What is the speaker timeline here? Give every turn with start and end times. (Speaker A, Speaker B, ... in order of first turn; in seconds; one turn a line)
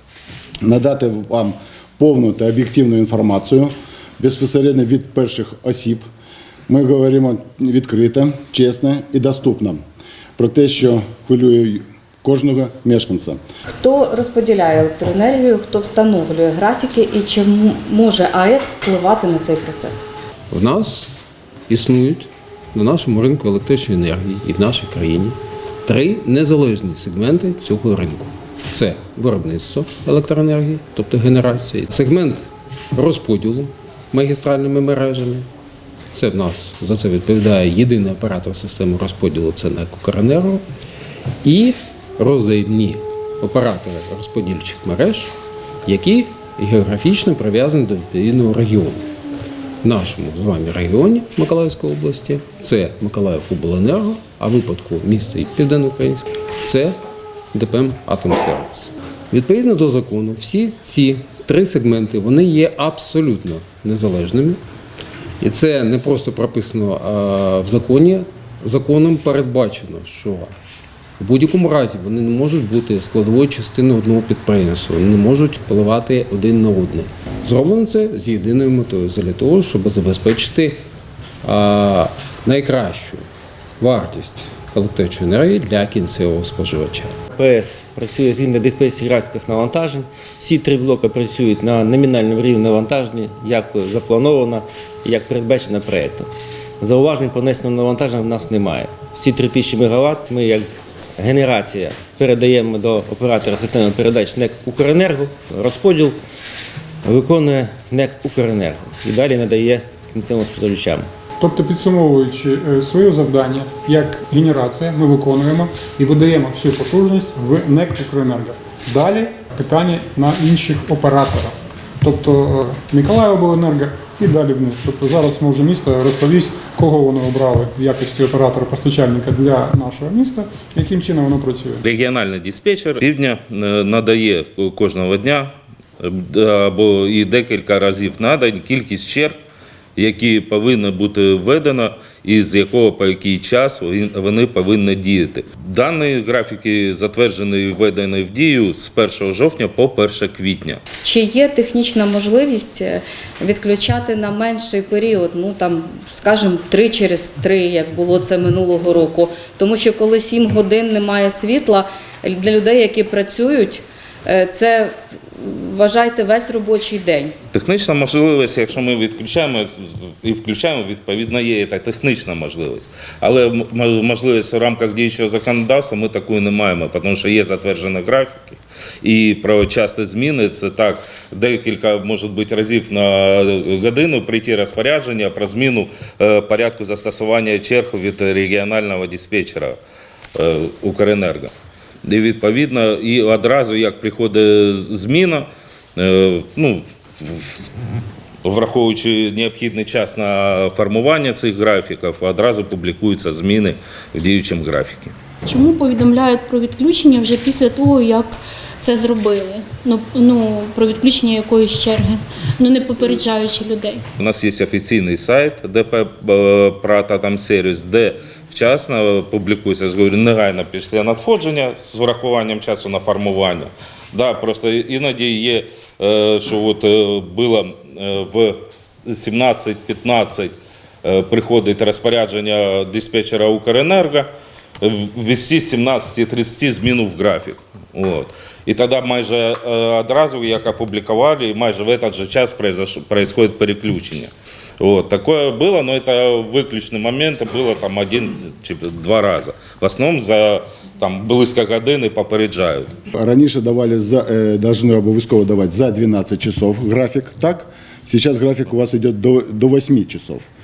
Speaker A: 0.6-6.0
Speaker A: 6.7-9.8
Speaker A: 10.4-13.4
Speaker B: 13.7-20.1
Speaker C: 20.5-21.1
Speaker C: 21.7-35.5
Speaker C: 36.1-40.6
Speaker C: 41.4-45.3
Speaker C: 45.9-49.1
Speaker C: 49.8-57.0
Speaker C: 57.5-64.6
Speaker C: 65.4-70.5
Speaker C: 71.2-80.8
Speaker C: 81.4-83.2
Speaker C: 83.8-87.2
Speaker D: 87.3-96.3
Speaker D: 96.8-106.2
Speaker D: 107.0-111.1
Speaker E: 111.4-131.8
Speaker F: 131.8-139.4
Speaker F: 139.9-150.8
Speaker B: 151.0-167.3
Speaker F: 167.5-189.8
Speaker F: 190.3-191.5
Speaker F: 192.0-197.7
Speaker F: 198.4-205.1
Speaker G: 205.4-214.0
Speaker F: 214.2-234.3
Speaker F: 234.8-252.9
Speaker A: 253.1-260.5